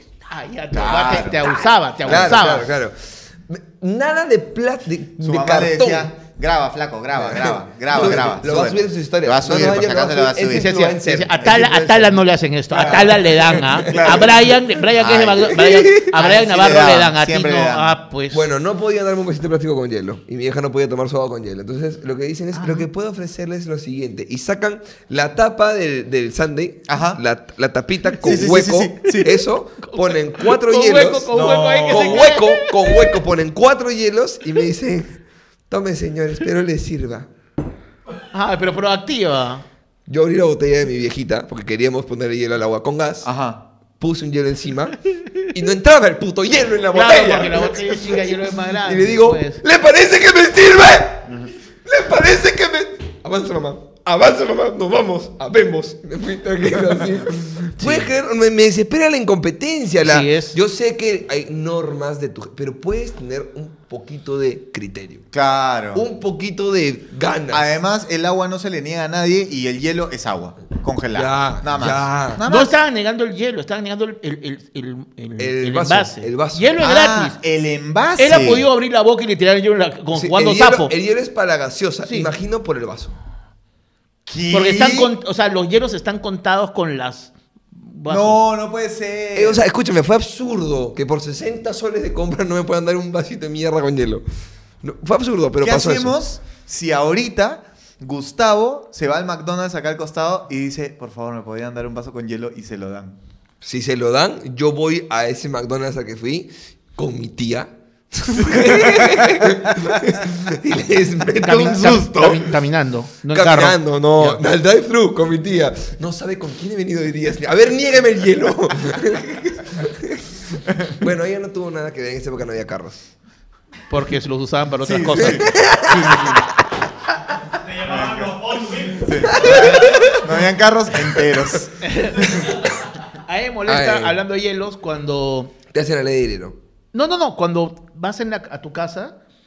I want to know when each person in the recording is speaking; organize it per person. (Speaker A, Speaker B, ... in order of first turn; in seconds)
Speaker A: 0.3-2.7, 10.5-18.4, 22.5-22.9, 29.8-33.1, 38.3-39.6, 46.9-49.6, 57.8-58.1, 60.0-60.5, 72.5-77.4, 78.2-80.9, 84.5-88.4, 111.4-114.4, 123.9-126.4, 131.8-135.5, 136.9-139.2
Speaker B: 0.7-1.5, 5.2-10.7, 12.7-17.9, 26.9-27.2, 28.2-29.4, 31.3-32.3, 43.2-43.6, 65.3-66.0, 67.5-72.7, 76.8-78.6, 84.3-85.1, 88.1-89.6, 95.6-103.2, 108.5-110.2, 111.4-112.4, 124.8-126.4, 127.8-128.3, 129.0-131.8
Speaker C: 2.0-6.1, 7.1-14.4, 15.4-16.1, 18.3-35.2, 35.7-37.3, 40.1-43.3, 44.0-65.2, 65.9-67.7, 71.1-72.4, 75.4-76.7, 80.1-83.1, 89.3-94.2, 94.8-96.2, 103.6-112.5, 113.3-120.3, 121.0-123.0, 125.2-126.2, 129.3-130.2, 133.7-134.2, 135.7-136.6
Speaker D: 127.5-129.8